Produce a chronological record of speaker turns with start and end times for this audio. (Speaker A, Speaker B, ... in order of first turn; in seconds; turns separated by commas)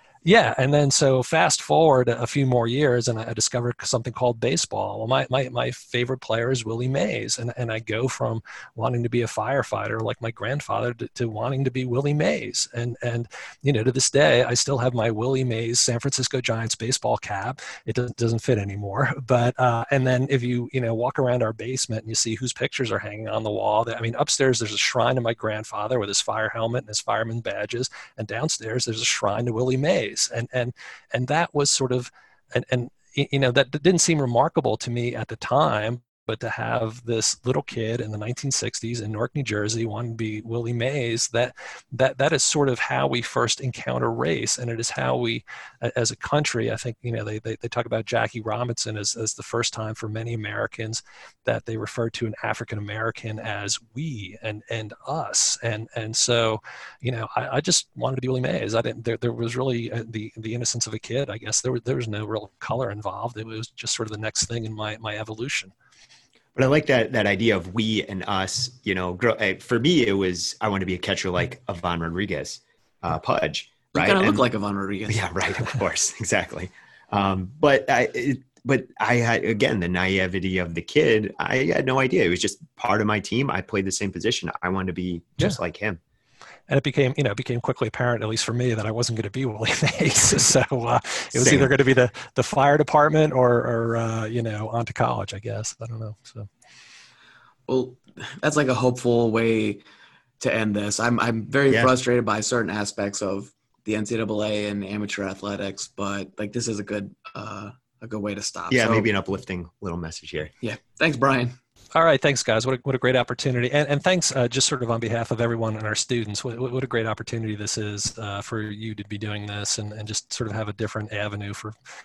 Speaker A: 0.2-65.7, Speaker B: 66.5-74.4, Speaker C: 73.9-75.3, Speaker B: 75.1-86.0, Speaker A: 86.7-96.5, Speaker B: 91.3-91.7, Speaker C: 97.7-99.8, Speaker C: 100.4-109.1, Speaker B: 108.7-110.5, Speaker C: 110.6-111.6, Speaker A: 111.9-121.7